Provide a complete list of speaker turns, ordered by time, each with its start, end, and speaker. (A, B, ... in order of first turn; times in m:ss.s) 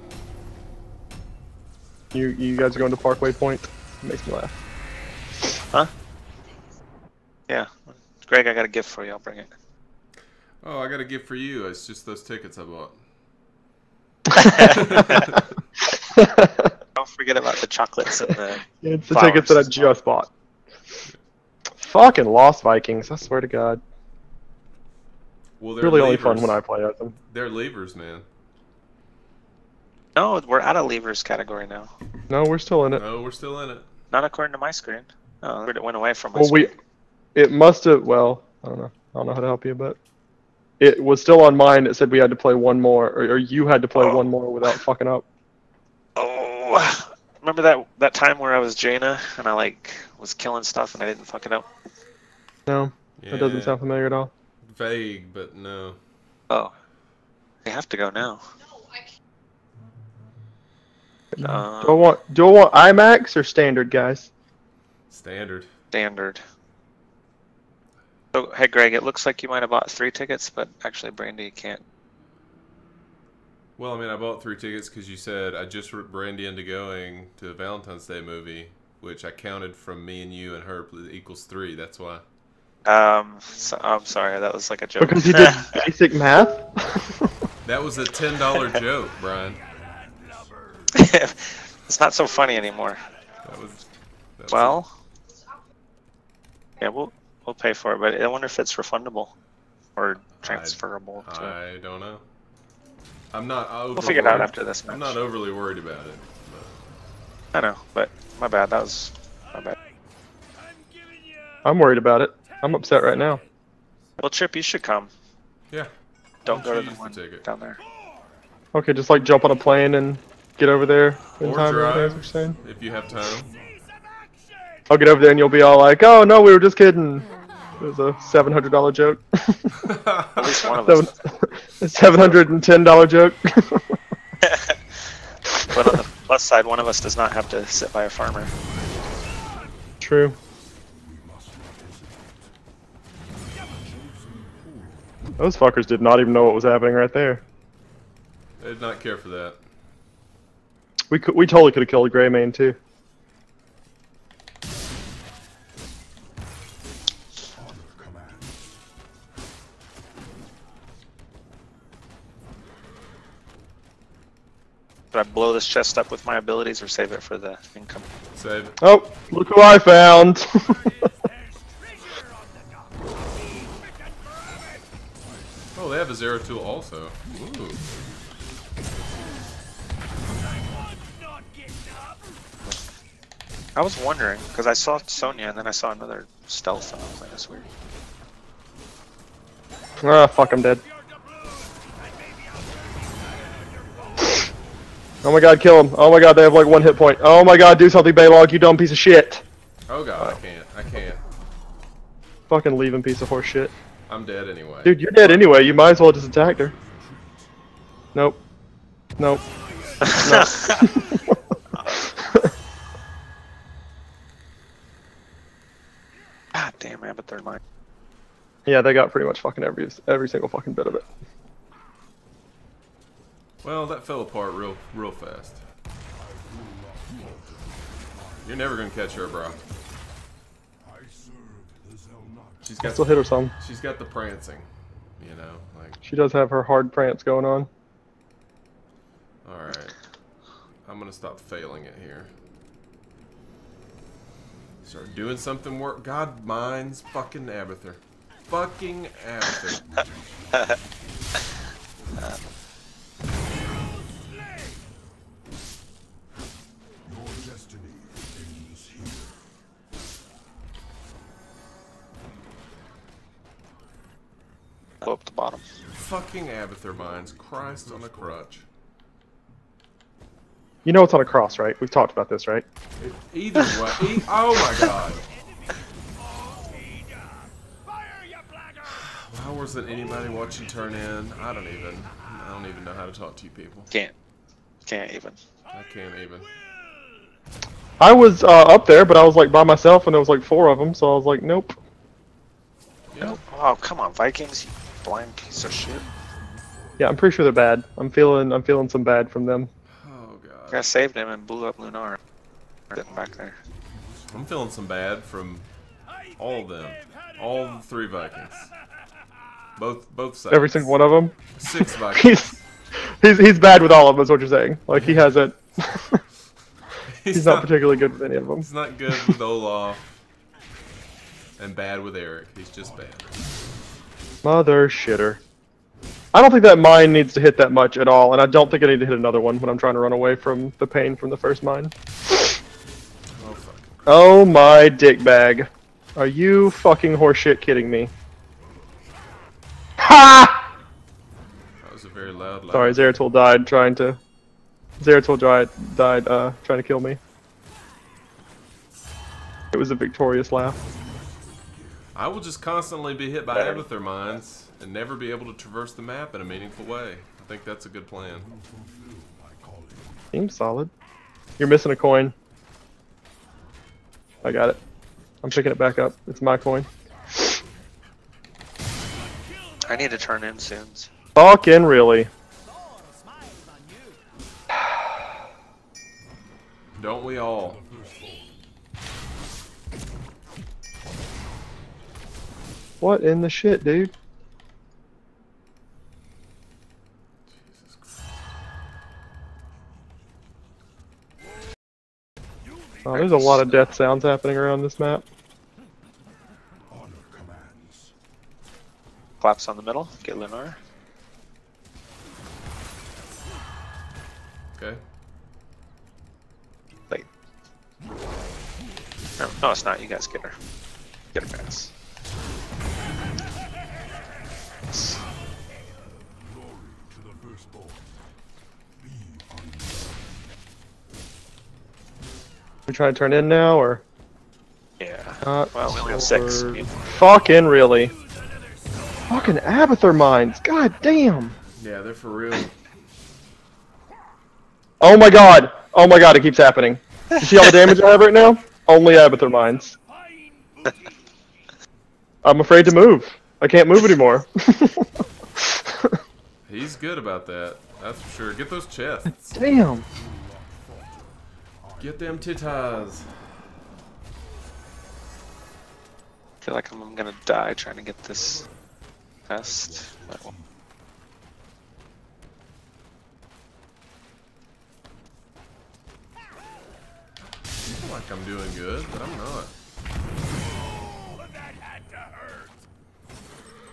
0:02.1-0:04.6 A
0:07.5-0:09.5 B
0:10.6-0:13.0 C
0:14.4-0:15.2 A
0:14.4-0:15.2 B
0:14.8-0:15.4 C
0:16.0-0:16.8 A
0:17.0-0:20.0 B
0:18.8-0:20.3 A
0:21.8-0:23.8 A
0:25.6-0:26.6 C
0:25.8-0:27.2 A
0:27.3-0:28.2 C
0:30.2-0:31.9 B
0:32.3-0:33.0 A
0:32.9-0:33.9 C
0:34.1-0:36.7 B
0:36.4-0:36.7 A
0:37.4-0:40.0 A
0:40.8-0:45.3 A
0:46.2-0:51.7 B
0:52.7-0:54.3 A
0:53.2-0:53.8 C
0:54.6-0:56.0 C
0:57.6-0:58.4 B
1:01.4-1:04.3 A
1:01.4-1:02.1 B
1:05.1-1:05.7 C
1:05.9-1:06.4 B
1:08.3-1:11.8 B
1:13.8-1:22.2 C
1:22.8-1:25.8 B
1:25.0-1:27.3 A
1:27.6-1:29.6 C
1:29.4-1:31.0 D
1:30.9-1:33.0 B
1:33.4-1:34.8 C
1:34.5-1:34.9 B
1:36.8-1:39.3 B
1:40.0-1:41.5 B
1:40.4-1:42.2 C
1:43.3-1:46.8 C
1:44.0-1:45.2 B
1:47.5-1:49.8 B
1:49.7-1:50.0 D
1:50.5-1:51.7 D
1:51.6-1:53.4 A
1:52.4-1:53.5 D
1:54.2-1:55.1 B
1:56.4-1:57.8 B
1:56.5-1:57.4 C
1:58.7-2:02.6 A
2:01.4-2:03.5 C
2:03.5-2:04.9 D
2:04.9-2:07.3 A
2:07.8-2:09.8 A
2:09.8-2:10.7 C
2:10.4-2:11.1 B
2:10.7-2:13.8 A
2:12.1-2:12.4 B
2:14.4-2:14.8 B
2:15.7-2:18.5 B
2:20.0-2:20.4 A
2:25.4-2:27.4 A
2:28.6-2:29.6 C
2:31.1-2:32.8 A
2:45.1-2:48.1 B
2:48.3-2:48.8 C
2:48.8-2:50.8 A
2:50.5-2:55.0 D
2:55.8-2:57.8 C
3:00.3-3:02.4 D
3:03.8-3:07.6 B
3:10.0-3:10.8 A
3:10.7-3:14.5 D
3:15.2-3:19.4 A
3:19.9-3:21.2 C
3:22.5-3:23.8 A
3:24.1-3:25.4 C
3:24.8-3:26.8 A
3:28.2-3:28.4 A
3:29.2-3:29.4 A
3:30.0-3:31.2 D
3:30.1-3:30.8 B
3:30.1-3:31.0 A
3:31.8-3:32.1 B
3:36.5-3:37.6 B
3:38.7-3:41.1 A
3:43.6-3:45.6 C
3:48.4-3:49.6 C
3:52.6-3:56.0 C
3:52.8-3:53.5 A
3:56.0-3:57.7 A
3:59.4-4:00.0 C
4:00.9-4:02.3 C
4:04.8-4:09.8 C
4:25.0-4:25.6 B
4:26.0-4:28.7 C
4:30.8-4:32.6 A
4:33.0-4:35.2 C
4:35.3-4:42.3 D
4:39.1-4:43.9 C
4:44.9-4:45.4 B
4:45.7-4:46.5 C
4:46.4-4:47.3 D
4:48.0-4:51.8 A
4:53.1-4:53.4 C
4:53.2-4:56.1 B
4:57.0-4:59.7 A
5:00.0-5:00.9 C
5:00.7-5:02.2 B
5:02.9-5:03.6 B
5:04.3-5:05.7 C
5:06.1-5:07.9 D
5:06.4-5:08.7 C
5:09.8-5:11.0 C
5:10.5-5:12.5 A
5:11.5-5:12.6 C
5:13.0-5:16.2 A
5:15.0-5:15.3 C
5:17.1-5:18.0 C
5:17.3-5:19.3 A
5:18.6-5:20.2 C
5:21.6-5:23.4 C
5:24.4-5:25.4 A
5:26.3-5:32.5 A
5:33.4-5:33.9 C
5:34.1-5:38.1 A
5:40.0-5:40.6 A
5:41.8-5:43.2 C
5:42.7-5:44.2 A
5:45.0-5:47.2 A
5:49.7-5:50.8 A
5:52.1-5:58.5 C
6:00.3-6:00.9 A
6:01.6-6:02.4 A
6:04.4-6:04.8 A
6:05.4-6:07.6 A
6:09.2-6:10.3 D
6:09.8-6:11.1 B
6:11.4-6:12.3 A
6:12.6-6:14.2 D
6:17.0-6:17.8 C
6:23.0-6:24.1 A
6:27.5-6:28.3 C
6:33.1-6:35.2 A
6:33.2-6:33.6 B
6:33.3-6:33.6 D
6:39.4-6:40.8 B
6:44.8-6:45.0 C
6:49.4-6:50.6 B
6:51.3-6:51.9 B
7:02.9-7:04.0 A
7:05.0-7:06.9 B
7:05.4-7:08.1 A
7:08.1-7:10.0 D
7:09.3-7:11.6 A
7:11.8-7:12.7 C
7:15.0-7:20.0 A
7:20.0-7:21.3 D
7:22.4-7:25.1 A
7:25.7-7:26.1 A
7:26.7-7:29.6 C
7:29.5-7:30.1 A
7:32.0-7:33.5 C
7:36.6-7:38.7 B
7:39.5-7:40.6 B
7:47.8-7:49.7 C
7:51.0-7:52.7 D